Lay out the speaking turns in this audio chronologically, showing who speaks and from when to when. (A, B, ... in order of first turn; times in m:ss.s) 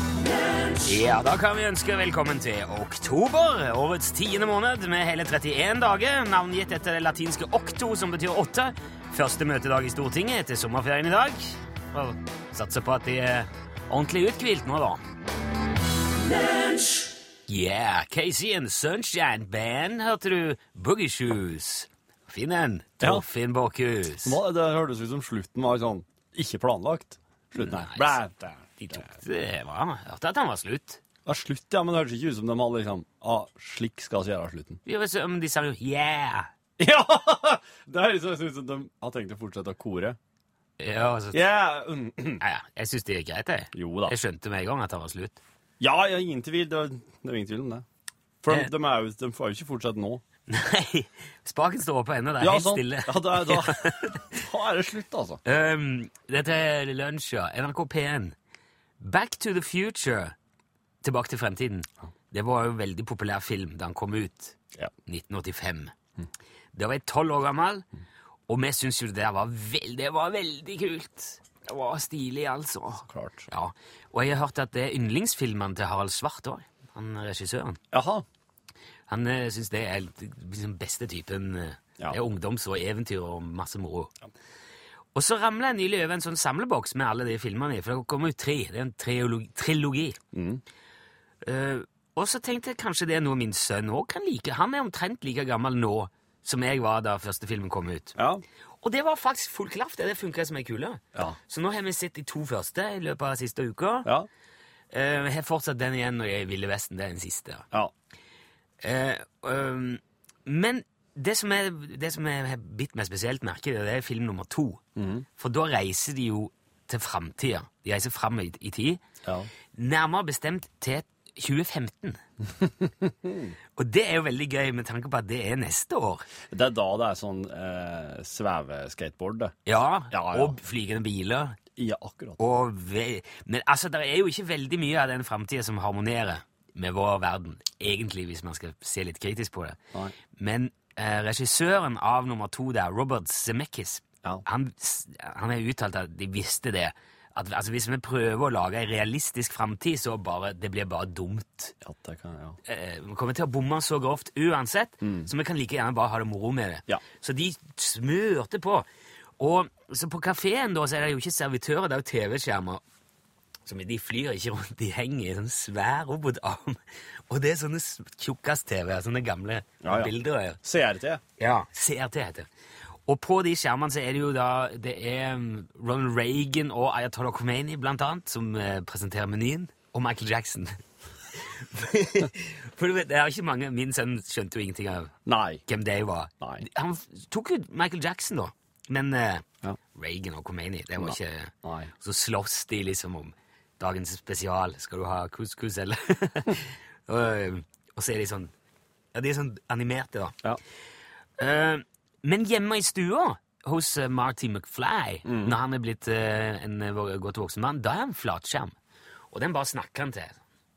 0:00.8-0:15.0 A
0:17.5-0:24.4 A
0:23.0-0:23.3 B
0:24.2-0:29.1 B
0:27.6-0:28.2 A
0:28.8-0:31.0 A
0:31.3-0:34.8 B
0:34.8-0:36.5 A
0:36.8-0:40.2 B
0:40.8-0:41.4 A
0:41.3-0:42.4 B
0:42.4-0:45.4 A
0:43.7-0:44.2 B
0:45.8-0:47.8 B
0:48.4-0:50.2 B
0:50.5-0:54.3 A
0:52.4-0:55.4 B
0:55.4-0:58.4 A
0:59.0-1:00.4 A
1:01.0-1:05.9 A
1:06.7-1:07.9 A
1:08.5-1:17.8 A
1:13.1-1:13.5 B
1:17.9-1:18.2 B
1:19.1-1:24.1 A
1:25.1-1:30.2 A
1:30.3-1:30.6 B
1:31.4-1:38.2 A
1:38.2-1:38.4 B
1:38.8-1:44.1 A
1:44.9-1:47.7 A
1:48.8-1:54.8 A
1:55.0-1:55.3 B
1:55.4-1:59.0 A
1:59.2-1:59.5 B
1:59.7-2:02.2 A
2:02.6-2:03.5 B
2:03.8-2:06.3 A
2:06.5-2:09.6 B
2:09.7-2:11.6 A
2:10.1-2:10.6 B
2:11.8-2:12.4 B
2:12.4-2:19.8 A
2:20.4-2:31.8 A
2:31.8-2:32.6 B
2:32.7-2:38.9 A
2:35.0-2:35.3 B
2:39.4-2:42.8 A
2:43.7-2:46.8 A
2:47.3-2:50.6 A
2:49.8-2:50.1 B
2:50.6-2:51.2 B
2:51.4-2:52.5 A
2:53.1-3:00.8 A
3:01.4-3:05.2 A
3:05.3-3:05.6 B
3:05.7-3:18.5 A
3:06.4-3:06.7 B
3:11.0-3:11.9 B
3:19.1-3:20.4 A
3:21.4-3:28.7 A
3:25.3-3:25.6 B
3:29.3-3:30.4 A